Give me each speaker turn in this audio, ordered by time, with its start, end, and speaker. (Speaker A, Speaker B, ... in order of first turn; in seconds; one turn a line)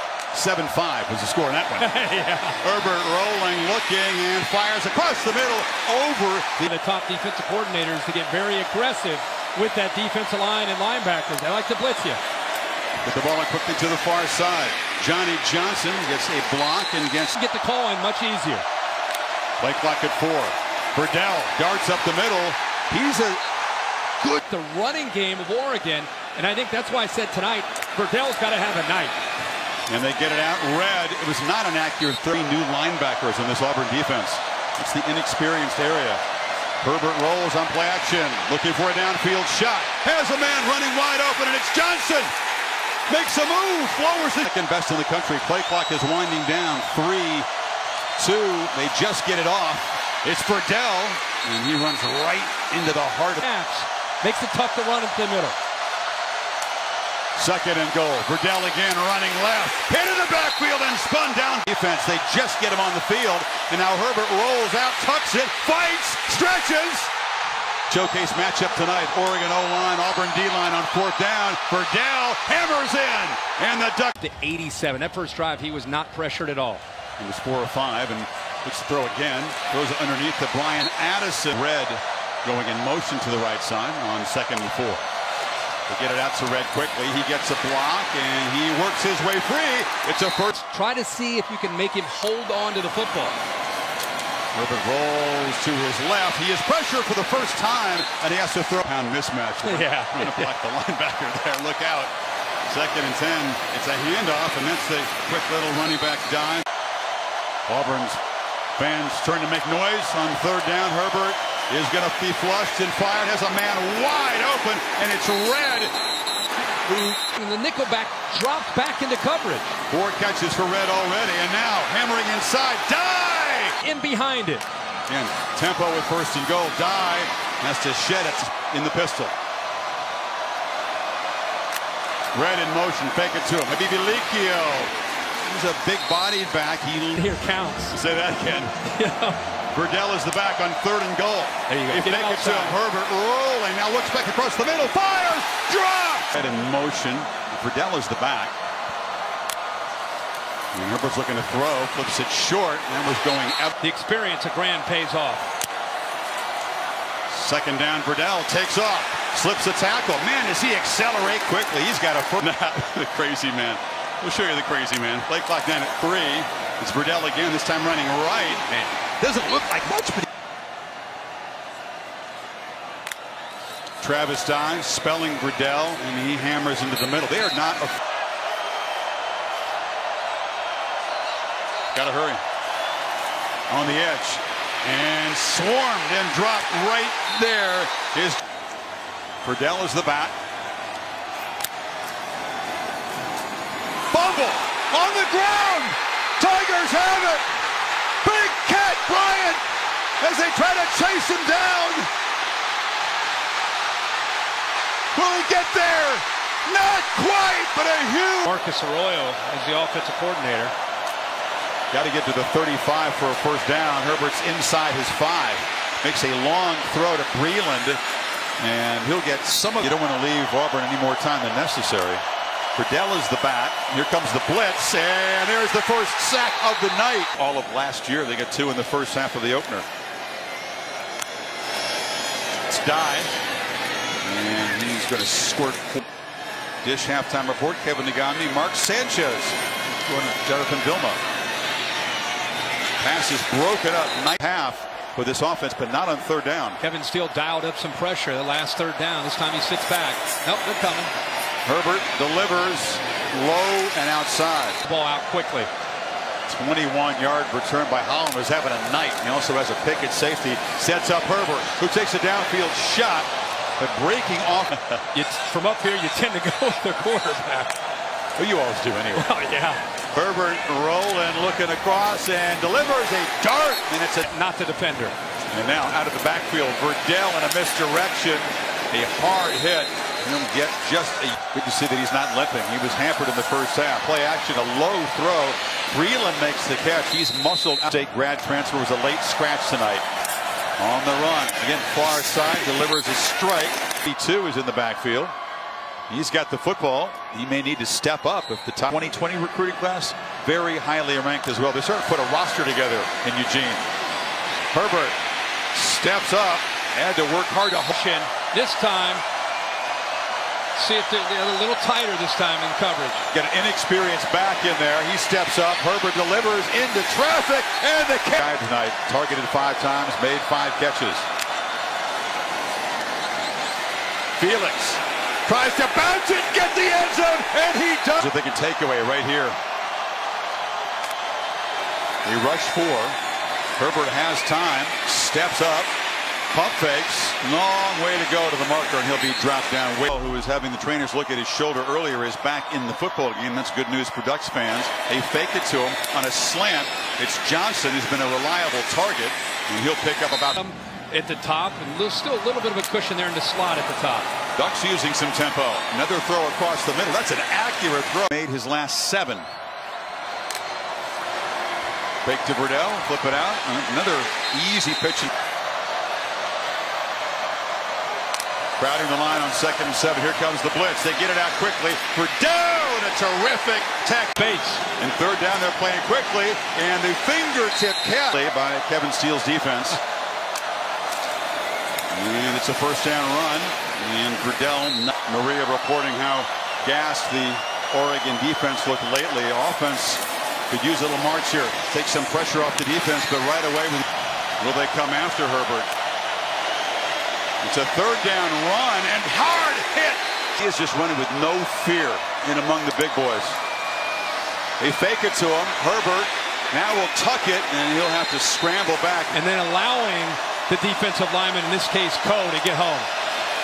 Speaker A: 0.3-1.9
Speaker B: 1.8-2.6
Speaker A: 2.6-6.7
Speaker B: 6.6-12.2
Speaker A: 13.1-17.4
Speaker B: 17.3-18.6
Speaker A: 19.6-23.4
Speaker B: 24.2-29.2
Speaker A: 29.9-36.2
Speaker A: 36.8-42.3
Speaker A: 43.1-47.5
Speaker A: 48.2-53.4
Speaker B: 53.4-55.6
Speaker A: 57.4-67.1
Speaker A: 67.9-74.2
Speaker B: 74.2-76.8
Speaker A: 77.2-85.0
Speaker A: 85.9-90.5
Speaker B: 90.5-93.4
Speaker A: 94.5-102.1
Speaker B: 99.6-100.5
Speaker A: 102.7-106.7
Speaker A: 107.7-108.2
Speaker A: 108.8-115.9
Speaker A: 116.9-117.2
Speaker B: 117.2-119.8
Speaker A: 119.9-123.8
Speaker B: 123.8-124.7
Speaker A: 125.1-129.3
Speaker A: 132.3-134.9
Speaker A: 135.4-137.4
Speaker B: 137.2-138.0
Speaker A: 137.9-138.8
Speaker B: 138.8-139.4
Speaker A: 139.7-148.5
Speaker B: 141.7-142.8
Speaker A: 150.7-153.7
Speaker B: 153.8-155.5
Speaker A: 157.3-170.2
Speaker A: 174.0-178.0
Speaker A: 181.9-182.4
Speaker A: 183.7-188.4
Speaker A: 189.4-190.3
Speaker A: 194.1-197.4
Speaker A: 198.2-199.6
Speaker A: 200.2-202.1
Speaker A: 205.2-208.5
Speaker B: 208.4-210.7
Speaker A: 211.9-218.0
Speaker A: 218.6-222.2
Speaker A: 222.8-229.9
Speaker A: 232.7-233.3
Speaker A: 234.2-236.0
Speaker A: 236.8-241.2
Speaker A: 243.0-246.8
Speaker B: 246.8-251.1
Speaker A: 251.7-254.8
Speaker B: 254.8-255.7
Speaker A: 256.5-265.0
Speaker B: 265.1-267.8
Speaker A: 268.4-269.3
Speaker B: 269.1-269.8
Speaker A: 270.1-274.3
Speaker B: 274.2-275.1
Speaker A: 275.5-290.1
Speaker A: 290.8-295.3
Speaker A: 296.1-303.9
Speaker A: 304.7-305.2
Speaker A: 305.7-307.9
Speaker B: 307.9-309.2
Speaker B: 310.8-313.3
Speaker A: 313.3-321.3
Speaker A: 324.4-329.6
Speaker A: 332.2-333.2
Speaker A: 333.8-335.9
Speaker A: 336.5-350.6
Speaker B: 350.6-354.3
Speaker A: 354.6-359.5
Speaker A: 362.2-365.3
Speaker A: 368.8-374.4
Speaker B: 374.4-374.8
Speaker A: 375.0-380.0
Speaker A: 382.1-394.1
Speaker A: 394.6-395.9
Speaker A: 397.6-403.6
Speaker A: 404.8-409.4
Speaker B: 409.3-413.1